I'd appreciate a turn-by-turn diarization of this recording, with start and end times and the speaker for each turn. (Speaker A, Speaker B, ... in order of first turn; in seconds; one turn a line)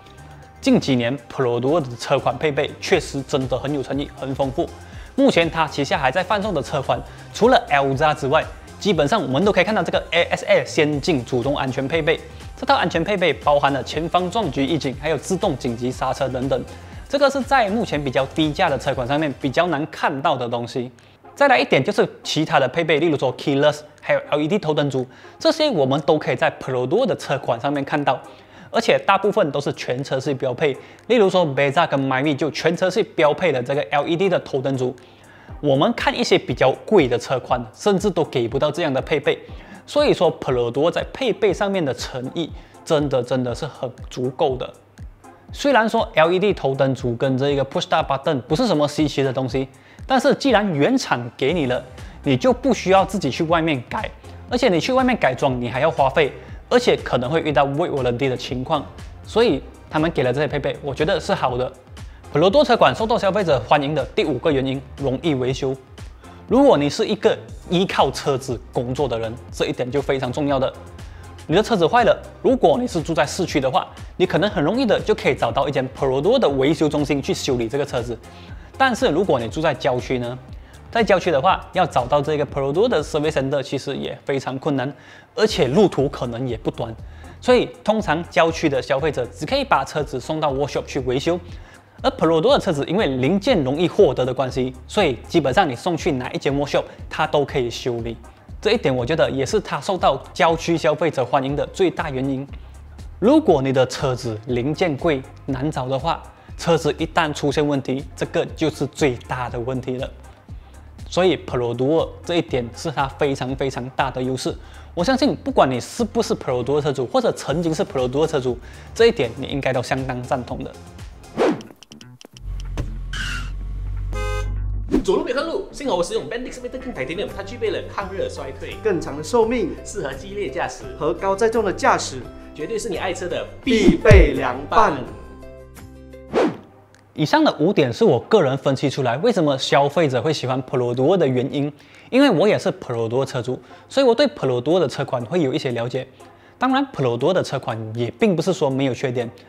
Speaker A: 0.6-35.0
Speaker A: 35.6-44.7
Speaker A: 45.5-61.7
Speaker A: 62.3-65.8
Speaker A: 66.5-70.7
Speaker A: 71.5-78.2
Speaker A: 78.8-80.4
Speaker A: 80.9-91.4
Speaker A: 92.0-102.5
Speaker A: 103.2-110.1
Speaker A: 111.1-120.8
Speaker B: 125.0-128.8
Speaker C: 128.8-129.8
Speaker B: 129.8-131.0
Speaker C: 131.0-132.4
Speaker B: 132.5-135.1
Speaker C: 133.7-135.1
Speaker A: 137.1-149.3